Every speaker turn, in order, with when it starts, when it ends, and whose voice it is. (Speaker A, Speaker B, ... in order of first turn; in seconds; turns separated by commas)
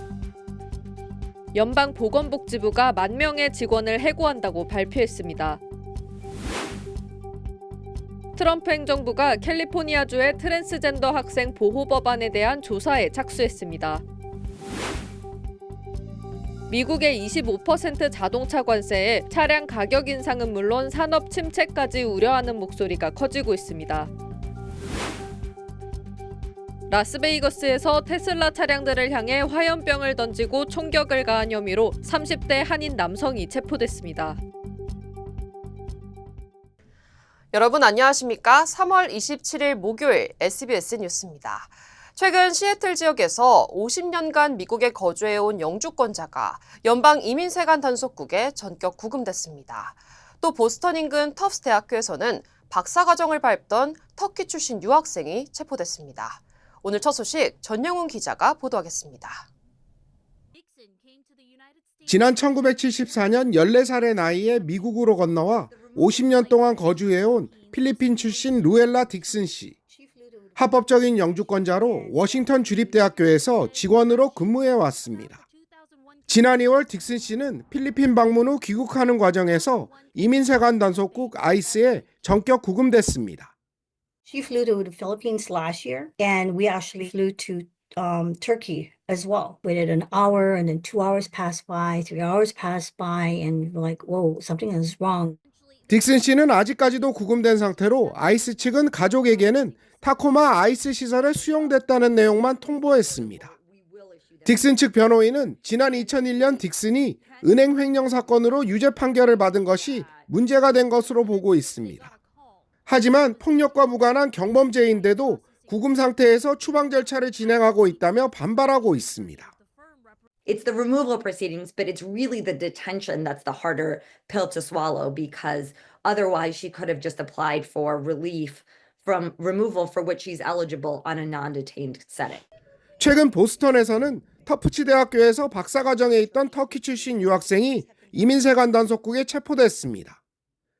Speaker A: 1.5-5.6, Speaker A: 8.4-14.0, Speaker A: 16.7-24.1, Speaker A: 26.9-34.4, Speaker B: 37.5-59.5, Speaker C: 62.1-69.8, Speaker D: 69.9-70.6, Speaker C: 70.5-75.4, Speaker D: 71.8-72.2, Speaker C: 76.3-83.5, Speaker D: 84.3-95.4, Speaker C: 95.9-103.5, Speaker E: 103.4-104.4, Speaker C: 104.4-112.2, Speaker C: 112.9-119.5, Speaker E: 120.5-132.4, Speaker C: 133.0-140.2